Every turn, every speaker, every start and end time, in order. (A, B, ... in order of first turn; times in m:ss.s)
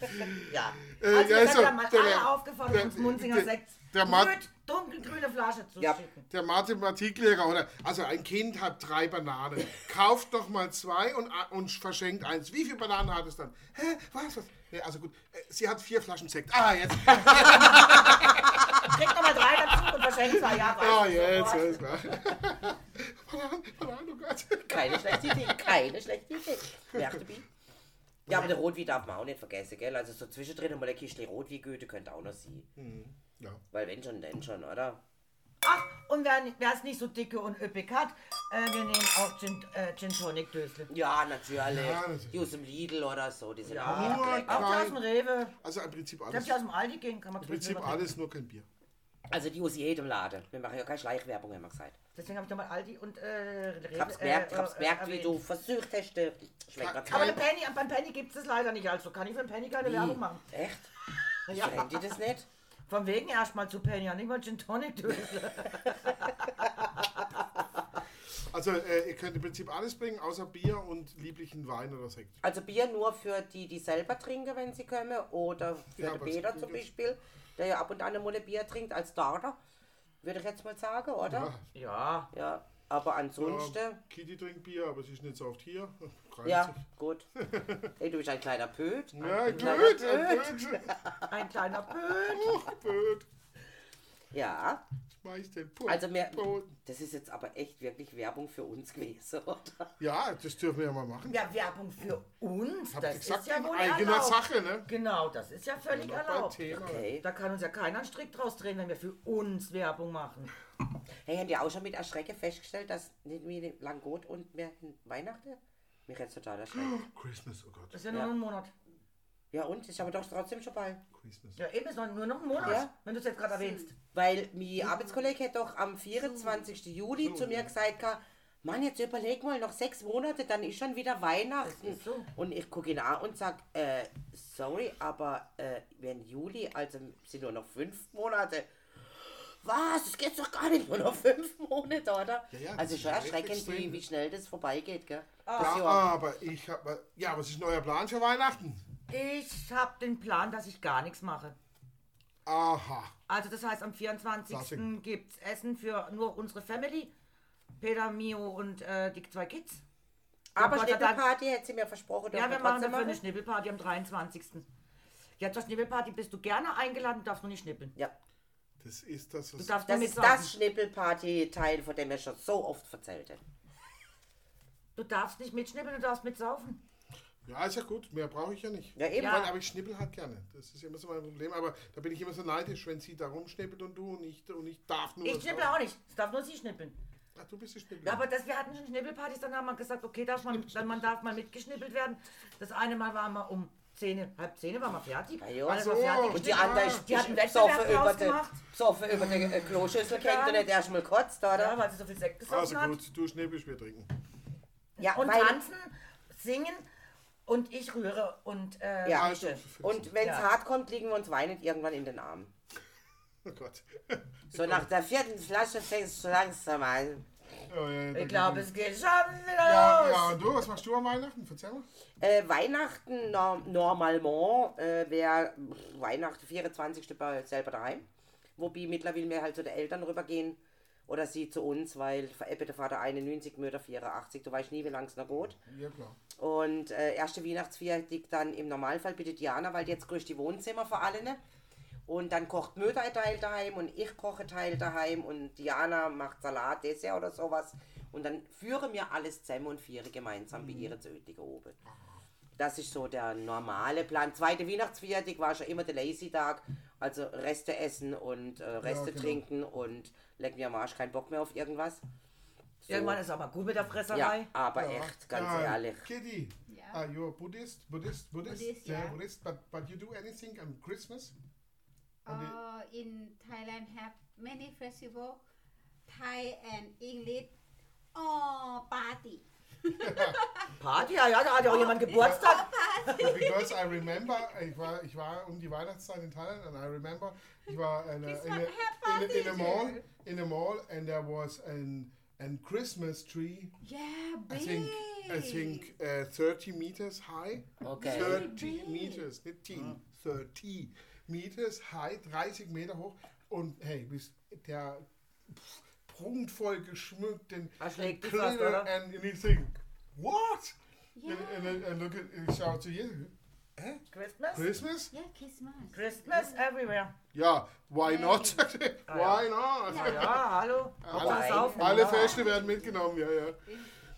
0:00.2-0:04.4 A
0:00.4-0:06.2 B
0:06.3-0:25.7 A
0:17.3-0:22.1 B
0:24.7-0:27.5 C
0:26.9-0:27.2 A
0:28.3-0:28.5 A
0:28.3-0:32.7 C
0:32.8-0:33.6 A
0:33.7-0:35.0 C
0:35.6-0:40.9 B
0:40.9-0:44.8 C
0:41.7-0:42.5 A
0:43.7-0:45.5 B
0:43.8-0:45.0 A
0:45.6-0:46.6 A
0:46.3-0:48.1 B
0:47.4-0:48.7 A
0:49.3-0:52.0 C
0:52.2-0:55.4 B
0:53.9-0:57.4 C
0:56.8-0:57.4 A
0:57.1-1:00.5 B
0:59.8-1:00.9 C
1:01.5-1:02.0 B
1:01.5-1:02.5 C
1:02.9-1:07.2 B
1:08.3-1:12.4 A
1:12.4-1:19.6 C
1:16.0-1:16.9 A
1:20.2-1:21.5 C
1:21.3-1:21.6 A
1:21.8-1:22.3 B
1:22.3-1:24.0 C
1:23.4-1:26.8 A
1:26.4-1:27.3 C
1:27.4-1:27.9 A
1:28.0-1:31.3 C
1:29.2-1:31.0 A
1:29.3-1:29.9 B
1:31.3-1:32.7 B
1:32.3-1:33.3 A
1:34.3-1:34.8 C
1:35.2-1:36.7 A
1:35.9-1:39.9 C
1:40.0-1:41.4 A
1:41.3-1:50.5 B
1:42.9-1:44.9 A
1:45.9-1:47.1 A
1:46.7-1:47.2 C
1:51.2-1:57.0 C
1:56.7-1:58.0 A
1:57.9-1:58.7 B
1:59.5-2:01.0 C
2:01.1-2:01.6 A
2:01.6-2:03.9 B
2:02.6-2:02.8 A
2:02.6-2:02.9 C
2:03.5-2:03.9 D
2:04.1-2:18.7 C
2:04.8-2:05.3 D
2:06.2-2:06.7 D
2:07.2-2:07.7 A
2:11.6-2:12.3 B
2:19.2-2:26.1 C
2:22.5-2:24.0 A
2:25.5-2:25.9 B
2:25.6-2:28.8 A
2:29.1-2:31.6 B
2:32.5-2:33.2 A
2:33.3-2:37.1 B
2:34.5-2:34.9 A
2:37.8-2:39.8 B
2:40.6-2:43.2 C
2:40.6-2:41.2 B
2:42.3-2:44.6 B
2:45.4-2:47.9 B
2:48.8-2:49.8 A
2:49.6-2:50.5 B
2:49.9-2:53.4 C
2:55.0-2:56.8 B
2:57.4-3:05.8 A
2:59.0-2:59.4 C
2:59.2-2:59.5 B
3:05.2-3:07.0 B
3:07.4-3:08.2 A
3:08.0-3:18.6 B
3:15.4-3:21.8 C
3:15.7-3:17.0 A
3:19.2-3:20.7 B
3:21.5-3:23.0 B
3:22.5-3:24.1 A
3:25.0-3:26.9 B
3:25.0-3:25.6 C
3:27.5-3:29.6 B
3:29.0-3:32.5 C
3:29.1-3:30.1 A
3:33.4-3:34.9 A
3:34.5-3:37.3 C
3:37.7-3:38.7 A
3:38.1-3:40.4 B
3:39.6-3:41.9 A
3:42.2-3:48.1 C
3:48.6-3:55.6 C
3:55.6-3:56.2 A
3:56.4-4:01.4 C
4:02.1-4:11.8 C
4:12.6-4:22.0 C
4:18.8-4:19.4 A
4:22.9-4:23.2 C
4:22.9-4:24.5 B
4:24.1-4:26.1 C
4:24.8-4:31.4 A
4:26.7-4:27.0 D
4:28.4-4:29.2 D
4:32.2-4:35.4 D
4:32.3-4:32.6 A
4:36.1-4:37.6 D
4:38.2-4:41.0 D
4:40.0-4:40.4 A
4:40.8-4:43.4 B
4:41.6-4:44.3 D
4:42.1-4:42.6 A
4:43.2-4:53.7 A
4:48.2-4:50.0 D
4:53.8-4:55.9 D
4:54.5-5:14.0 A
4:57.8-4:58.5 C
4:58.0-4:59.3 D
5:07.8-5:08.9 B
5:11.2-5:11.8 D
5:14.1-5:14.7 B
5:14.5-5:15.1 A
5:15.1-5:16.6 D
5:15.9-5:17.2 B
5:17.3-5:23.6 A
5:18.0-5:18.7 D
5:19.1-5:22.5 B
5:19.9-5:20.4 D
5:21.1-5:21.8 C
5:21.4-5:23.0 D
5:23.7-5:23.9 D